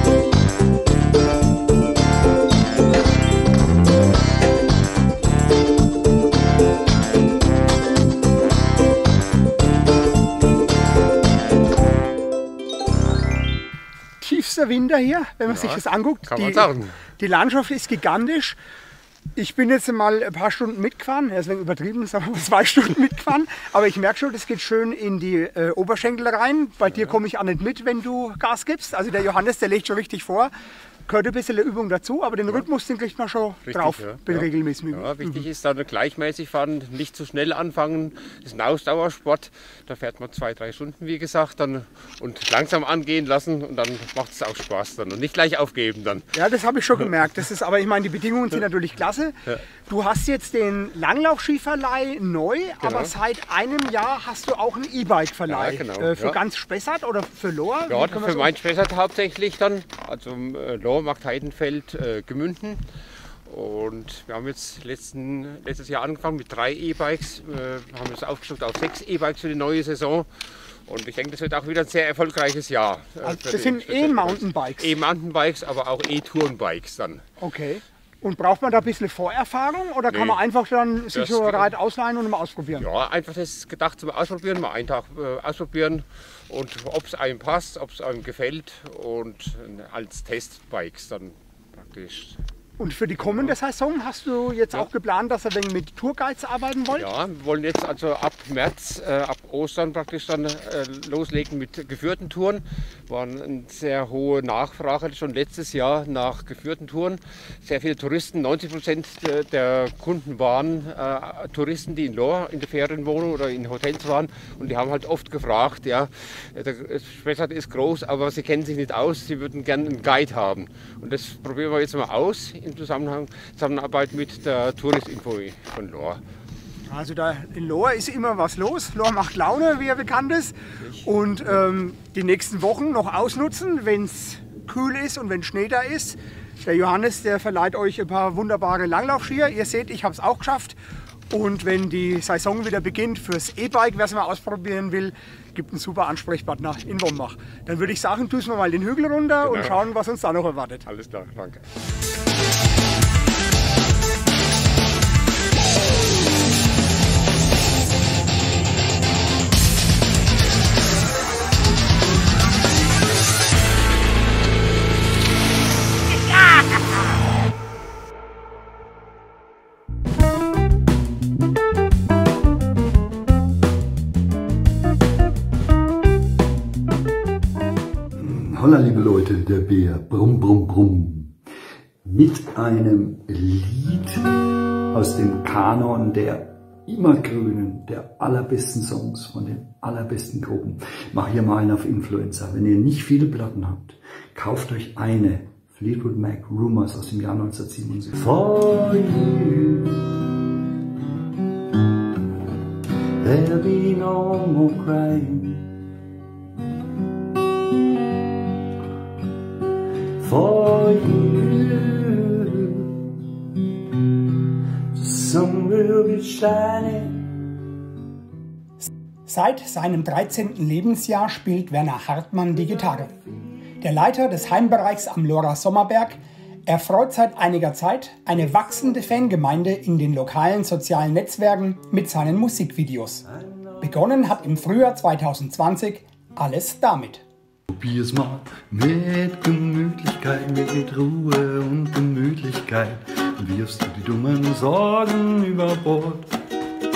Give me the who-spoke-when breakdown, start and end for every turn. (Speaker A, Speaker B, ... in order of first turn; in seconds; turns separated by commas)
Speaker A: 14.2-18.6, Speaker B: 15.5-17.0, Speaker A: 19.4-30.5, Speaker A: 31.1-35.5, Speaker B: 33.6-46.3, Speaker A: 46.3-58.5, Speaker B: 52.8-53.1, Speaker B: 55.5-56.4, Speaker B: 57.9-62.8, Speaker B: 63.5-70.3, Speaker B: 70.9-77.2, Speaker A: 73.2-75.0, Speaker A: 77.4-82.9, Speaker B: 80.1-80.4, Speaker B: 81.1-81.7, Speaker B: 82.8-92.4, Speaker A: 92.8-97.1, Speaker B: 93.2-93.5, Speaker B: 96.9-126.2, Speaker A: 126.9-140.8, Speaker A: 141.3-150.9, Speaker B: 149.4-149.8, Speaker B: 150.8-151.7, Speaker C: 178.2-181.3, Speaker C: 182.0-184.3, Speaker C: 184.9-200.1, Speaker C: 203.2-205.7, Speaker C: 210.2-213.0, Speaker C: 214.9-217.3, Speaker A: 218.8-223.1, Speaker A: 223.8-233.2, Speaker C: 233.4-233.8, Speaker A: 233.8-237.2, Speaker C: 237.7-246.3